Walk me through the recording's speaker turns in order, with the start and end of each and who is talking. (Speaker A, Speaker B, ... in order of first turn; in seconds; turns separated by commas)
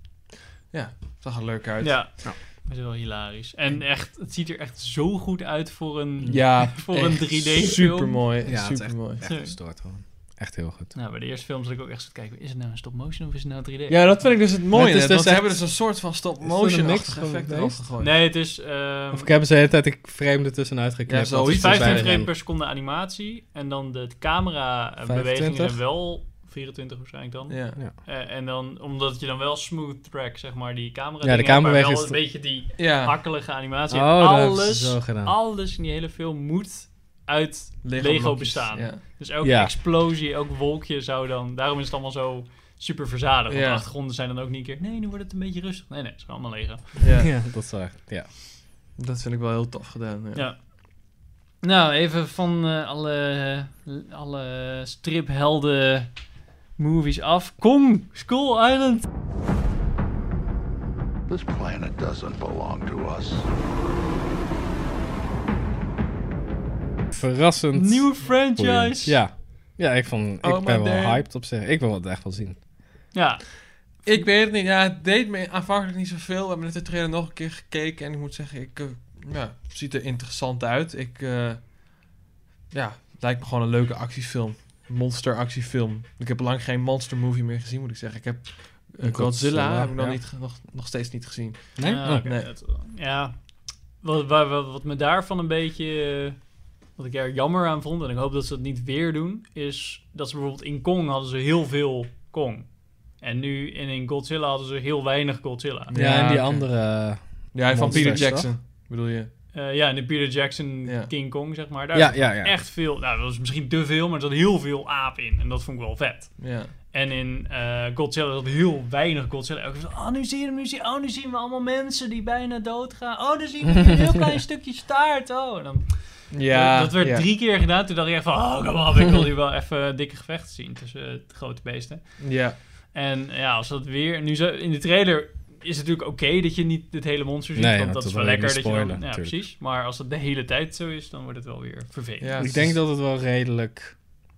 Speaker A: 0.7-2.2, Speaker B: 1.8-8.2, Speaker C: 6.2-6.5, Speaker A: 6.3-9.2, Speaker C: 8.4-10.9, Speaker B: 9.2-9.6, Speaker B: 10.9-14.2, Speaker A: 13.9-18.1, Speaker C: 14.7-17.8, Speaker B: 18.0-19.3, Speaker C: 19.1-22.3, Speaker A: 21.1-22.1, Speaker B: 21.5-46.9, Speaker C: 25.0-25.8, Speaker A: 27.5-27.8, Speaker C: 31.2-32.2, Speaker A: 32.8-33.2, Speaker C: 33.9-35.4, Speaker A: 37.8-39.0, Speaker C: 39.4-39.8, Speaker A: 43.5-43.9, Speaker A: 47.0-47.3, Speaker C: 47.1-48.3, Speaker A: 49.0-50.5, Speaker B: 50.4-59.1, Speaker D: 61.3-63.5, Speaker C: 67.1-72.6, Speaker B: 67.7-69.2, Speaker A: 70.4-71.2, Speaker B: 73.1-74.3, Speaker A: 74.0-81.7, Speaker A: 82.7-92.5, Speaker C: 89.0-90.2, Speaker C: 91.8-92.3, Speaker B: 91.8-105.9, Speaker A: 105.9-109.3, Speaker C: 105.9-108.5, Speaker B: 107.9-108.3, Speaker B: 109.5-142.4, Speaker A: 110.8-111.1, Speaker C: 111.9-112.6, Speaker A: 116.4-116.7, Speaker C: 124.0-124.2, Speaker A: 126.3-127.3, Speaker A: 132.2-132.6, Speaker C: 137.6-139.4, Speaker A: 142.2-142.8, Speaker C: 142.4-144.0